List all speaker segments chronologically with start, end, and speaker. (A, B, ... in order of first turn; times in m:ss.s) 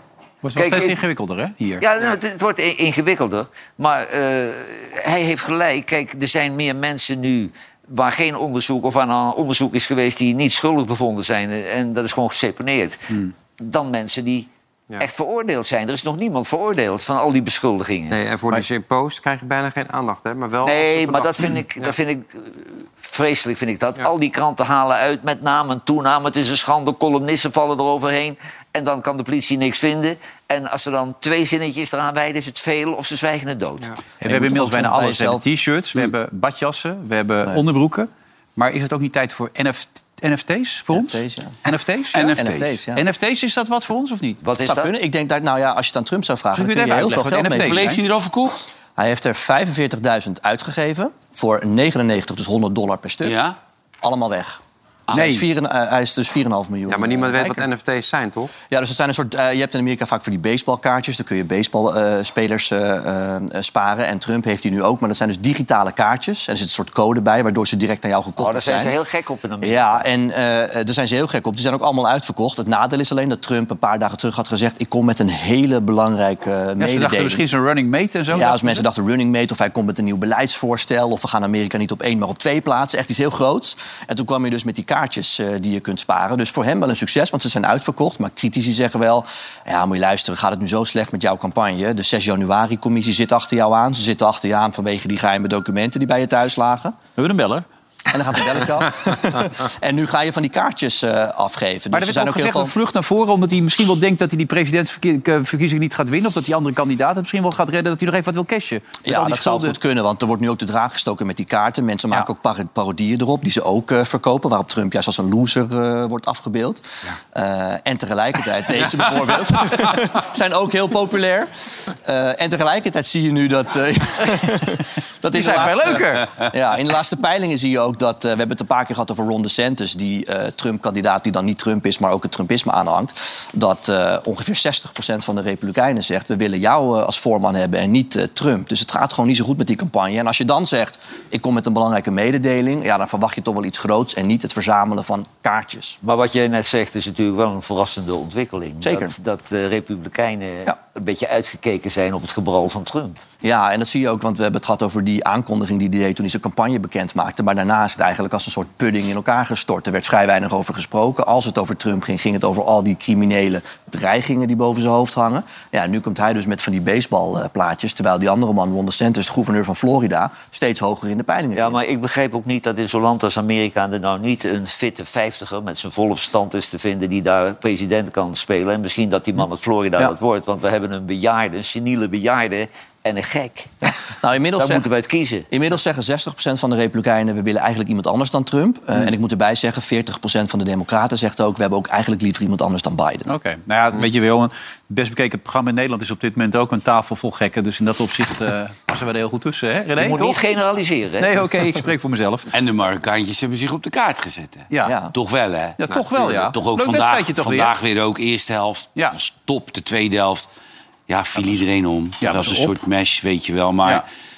0:00.4-0:01.8 A
0:00.5-0:01.0 B
0:01.8-0:18.2 B
0:18.1-0:21.9 C
0:20.6-0:33.9 B
0:34.2-0:44.4 A
0:34.2-0:35.4 D
0:40.9-0:41.6 D
0:42.1-0:42.8 E
0:42.3-0:43.0 D
0:44.4-0:44.9 B
0:44.6-0:48.0 D
0:46.6-0:48.0 A
0:47.4-0:48.7 E
0:49.0-0:53.4 D
0:53.2-0:53.6 E
0:54.0-0:54.6 D
0:55.1-0:57.6 D
0:55.1-0:55.4 A
0:56.9-0:58.5 C
0:58.7-1:08.9 D
1:08.4-1:10.1 B
1:09.6-1:17.4 D
1:16.8-1:18.8 A
1:18.3-1:37.0 D
1:37.2-1:37.6 A
1:38.1-1:42.7 D
1:41.9-1:49.7 A
1:49.0-2:01.5 D
2:02.0-2:26.0 D
2:05.3-2:06.4 A
2:26.0-2:33.2 B
2:28.8-2:29.1 D
2:33.4-2:51.8 D
2:51.5-3:03.9 B
3:04.2-3:04.9 D
3:04.6-3:05.5 B
3:05.5-3:13.3 D
3:13.3-3:20.4 A
3:20.0-3:21.4 B
3:21.2-3:22.5 A
3:22.5-3:30.5 E
3:24.7-3:25.0 A
3:24.8-3:25.1 D
3:25.8-3:27.7 A
3:31.1-3:34.0 E
3:32.2-3:32.8 A